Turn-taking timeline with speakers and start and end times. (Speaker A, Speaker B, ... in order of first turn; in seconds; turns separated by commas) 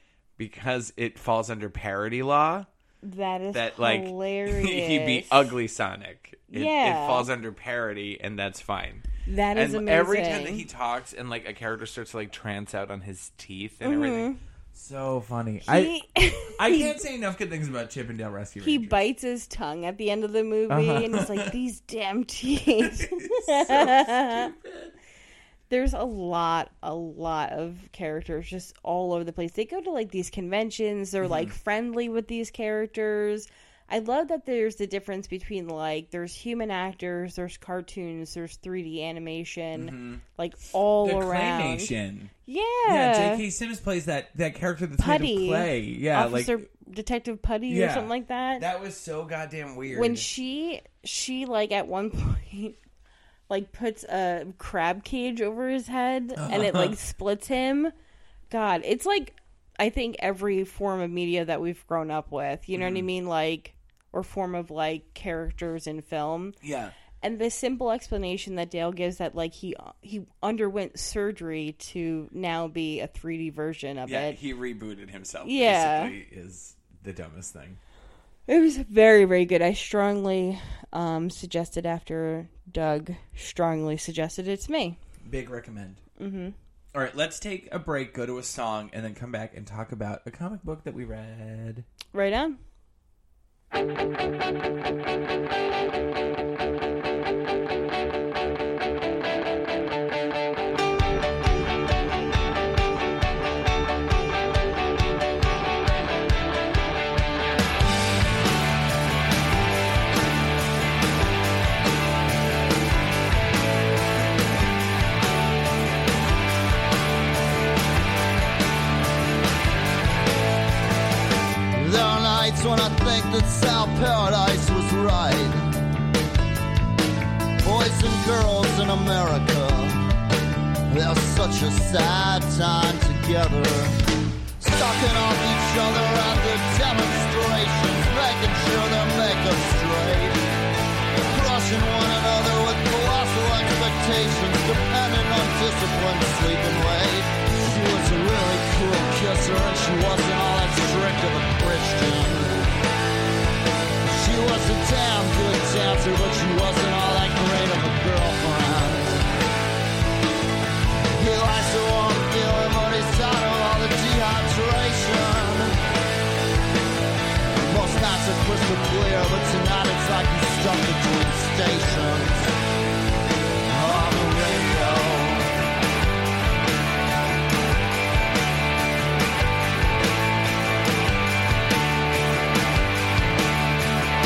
Speaker A: 0.4-2.7, Speaker B: 3.0-5.5, Speaker A: 3.5-15.9, Speaker B: 6.5-7.3, Speaker B: 9.2-10.6, Speaker B: 13.8-14.4, Speaker B: 15.6-16.9, Speaker A: 16.5-19.0, Speaker B: 18.6-24.5, Speaker A: 20.7-21.5, Speaker A: 22.8-24.9, Speaker B: 25.7-41.9, Speaker A: 31.2-31.5, Speaker A: 39.7-40.2, Speaker A: 41.0-42.3, Speaker B: 42.5-43.4, Speaker A: 42.8-46.6, Speaker B: 45.0-48.6, Speaker A: 47.7-50.3, Speaker B: 49.9-52.8, Speaker B: 53.5-57.9, Speaker A: 56.4-56.9, Speaker B: 58.5-66.6, Speaker A: 62.8-63.0, Speaker A: 66.6-67.0, Speaker B: 67.2-74.4, Speaker A: 74.0-77.8, Speaker B: 75.4-76.1, Speaker B: 78.5-85.0, Speaker A: 85.2-86.0, Speaker B: 86.2-86.5, Speaker A: 86.9-91.8, Speaker B: 92.1-92.6, Speaker C: 121.7-125.7, Speaker C: 127.6-130.0, Speaker C: 130.9-133.9, Speaker C: 134.6-140.4, Speaker C: 141.1-152.6, Speaker C: 154.0-159.2, Speaker C: 161.1-165.8, Speaker C: 167.6-172.5, Speaker C: 173.7-175.5